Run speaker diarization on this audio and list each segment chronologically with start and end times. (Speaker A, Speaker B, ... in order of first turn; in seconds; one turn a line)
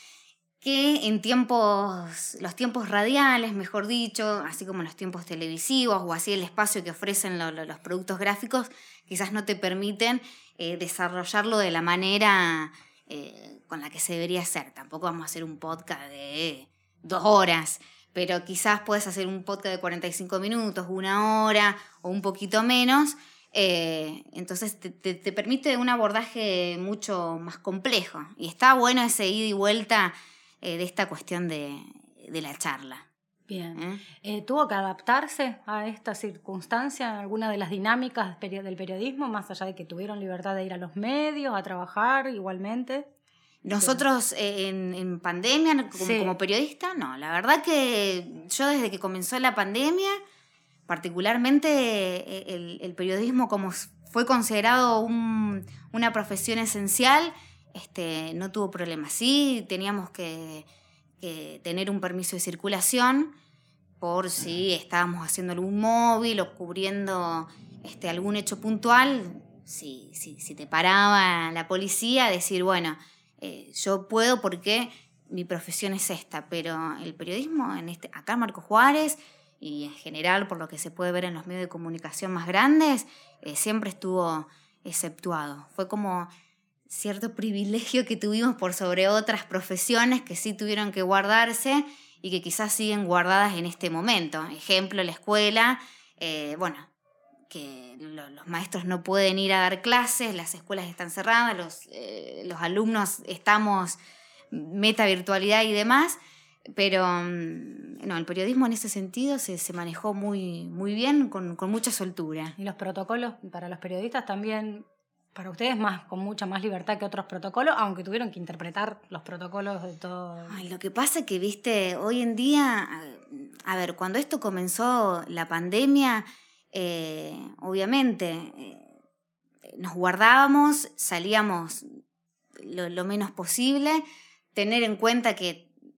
Speaker A: 0.6-33.1
Speaker B: 33.5-43.1
Speaker A: 33.8-34.0
Speaker A: 43.6-50.2
Speaker B: 46.0-46.4
Speaker A: 50.9-60.7
Speaker A: 61.2-63.4
Speaker A: 64.0-86.3
Speaker A: 86.9-96.9
Speaker A: 97.5-104.0
Speaker A: 104.5-106.2
Speaker A: 106.8-112.5
Speaker B: 112.6-120.6
Speaker A: 120.5-128.9
Speaker A: 129.7-131.9
Speaker A: 132.6-134.0
Speaker A: 134.6-135.7